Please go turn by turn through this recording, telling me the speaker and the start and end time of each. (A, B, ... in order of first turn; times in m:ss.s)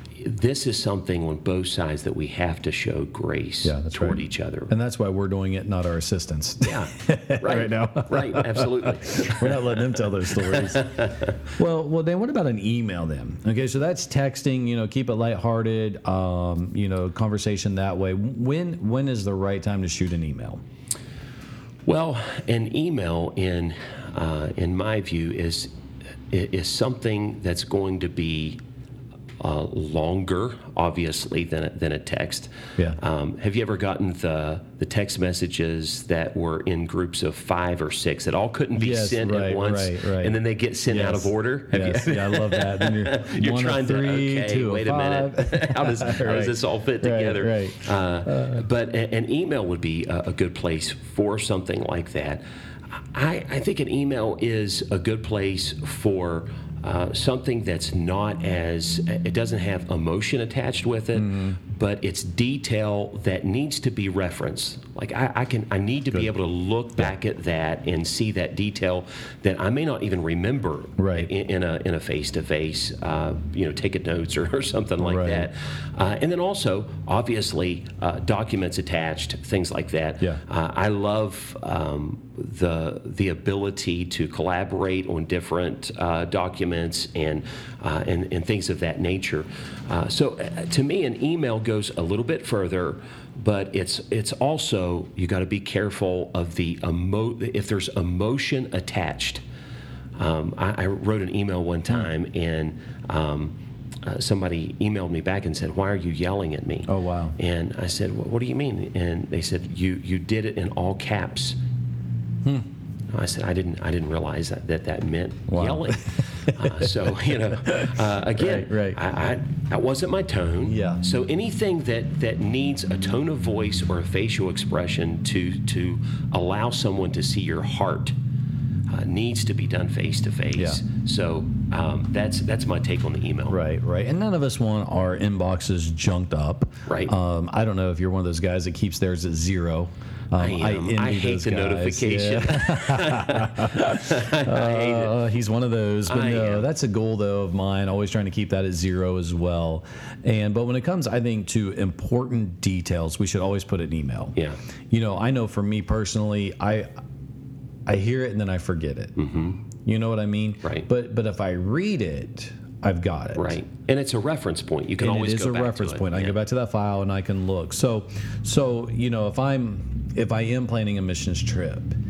0:00.2-0:04.7 A
0:03.6-0:20.6 B
0:06.6-0:09.6 A
0:10.5-0:11.3 A
0:21.8-0:25.7 A
0:26.3-0:28.6 A
0:29.4-1:39.4 A
0:38.7-0:48.6 B
1:01.1-1:01.6 B
1:11.0-1:11.3 B
1:15.0-1:15.5 B
1:40.2-1:51.6 A
1:46.9-1:47.4 B
1:53.1-2:08.1 A
1:55.5-1:59.0 B
2:00.6-2:01.0 B
2:08.9-2:13.6 A
2:10.5-2:10.8 B
2:13.5-2:34.4 B
2:16.9-2:17.1 A
2:20.4-2:25.1 A
2:26.1-2:26.7 A
2:34.9-2:36.9 B
2:37.8-2:39.2 B
2:39.2-2:39.6 A
2:39.8-2:43.6 B
2:43.4-2:46.4 A
2:45.0-2:52.0 B